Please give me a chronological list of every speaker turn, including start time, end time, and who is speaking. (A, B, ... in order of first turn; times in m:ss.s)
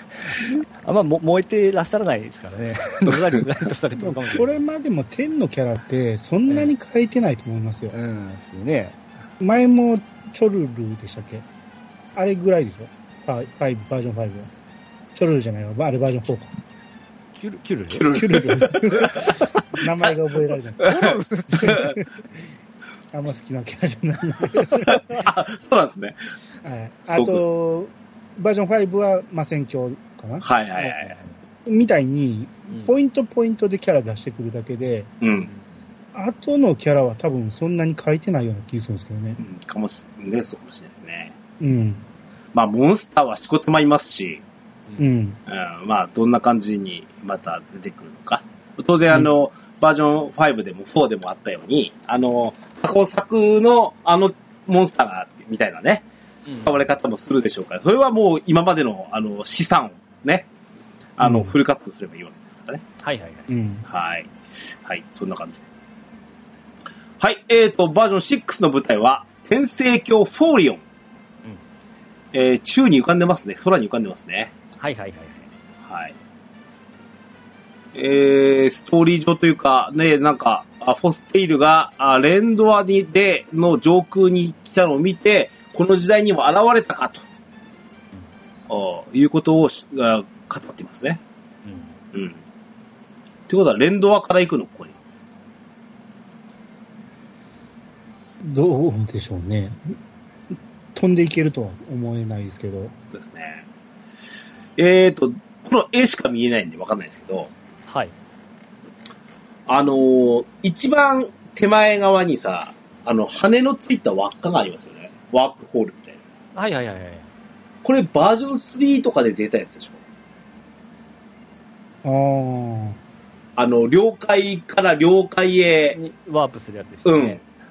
0:00.1-0:04.6 A
0:04.0-0:08.0 B
0:07.9-0:09.0 A
0:09.4-0:11.4 B
0:12.1-0:14.5 B
0:15.1-0:16.5 B
0:17.3-0:18.1 A
0:17.9-0:19.2 C
0:18.1-0:22.1 B
0:20.8-0:21.9 A
0:21.6-0:21.9 C
0:23.1-0:25.2 B
0:24.9-0:26.2 C
0:26.6-0:30.4 B
0:27.1-0:27.4 C
0:30.4-0:31.2 C
0:30.8-0:31.3 A
0:31.6-0:35.1 B
0:35.2-0:35.5 C
0:36.1-0:39.4 B
0:39.4-0:41.3 C
0:41.6-0:42.0 B
0:42.5-0:44.4 C
0:45.0-0:45.4 B
0:45.5-0:56.0 C
0:56.4-0:56.7 A
0:56.6-1:00.5 C
1:01.2-1:02.8 C
1:01.2-1:01.5 B
1:03.0-1:03.5 A
1:03.5-1:03.8 B
1:03.9-1:04.3 C
1:04.8-1:05.6 C
1:07.2-1:10.8 C
1:12.3-1:14.5 C
1:14.8-1:15.5 A
1:15.8-1:16.1 C
1:17.9-1:27.2 C
1:28.7-1:31.2 C
1:31.6-1:31.9 A
1:32.1-1:32.4 C
1:33.5-1:34.9 C
1:38.4-1:39.8 B
1:40.9-1:42.9 B
1:43.1-1:43.6 C
1:44.8-1:47.5 C
1:47.9-1:48.1 A
1:49.7-1:56.2 C
1:56.5-1:57.3 A
1:57.8-2:00.0 C
2:02.0-2:03.0 B
2:03.6-2:06.0 C
2:05.9-2:07.4 A
2:07.0-2:07.4 C